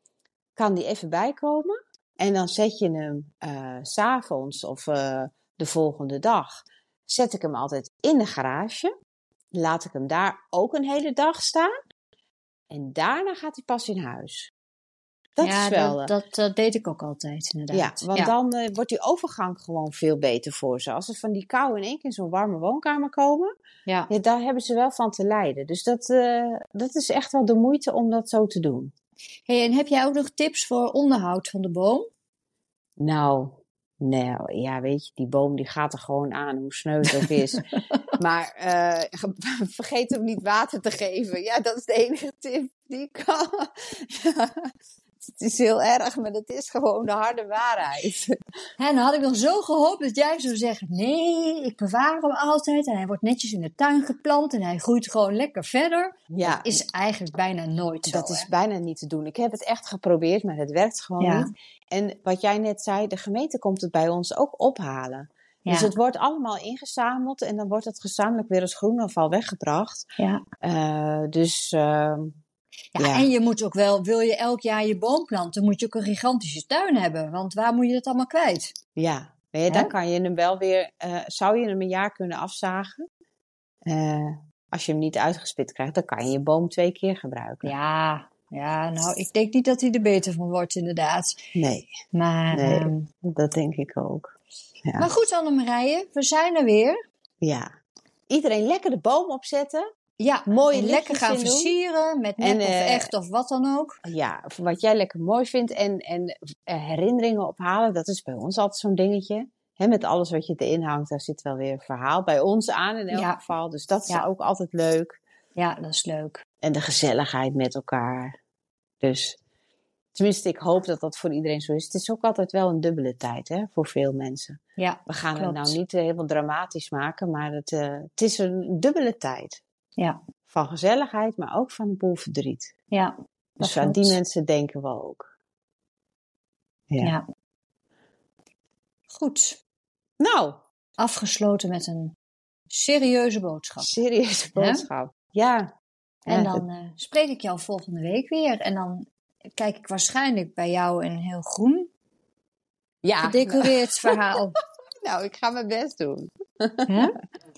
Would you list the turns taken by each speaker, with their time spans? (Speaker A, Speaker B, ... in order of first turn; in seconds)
Speaker A: 0.6-8.9, 9.5-11.7, 12.7-14.5, 15.4-16.1, 17.7-23.5, 24.1-28.9, 33.0-37.6, 38.2-44.7, 45.3-48.3, 56.3-56.8, 58.1-70.1, 70.6-72.4, 73.0-73.3, 79.0-83.1, 83.9-87.7, 91.5-91.9, 92.5-95.1, 97.4-97.7, 98.3-99.8, 100.5-101.7, 102.4-103.1, 104.0-115.2, 116.6-118.3, 119.0-119.4, 120.2-129.6, 130.5-132.7, 133.6-135.3, 140.2-140.6, 143.8-145.7, 146.3-146.6, 153.0-154.2, 155.0-156.9
Speaker B: 15.4-18.3, 29.5-32.1, 48.8-58.5, 61.2-61.5, 65.7-65.9, 70.2-70.4, 73.0-78.7, 87.6-91.3, 92.1-93.1, 95.0-97.0, 100.2-104.0, 113.1-113.4, 115.6-116.4, 124.8-125.8, 132.9-134.2, 139.1-139.6, 141.0-142.2, 142.7-143.9, 144.6-144.8, 146.3-151.9, 153.2-154.6, 156.9-157.2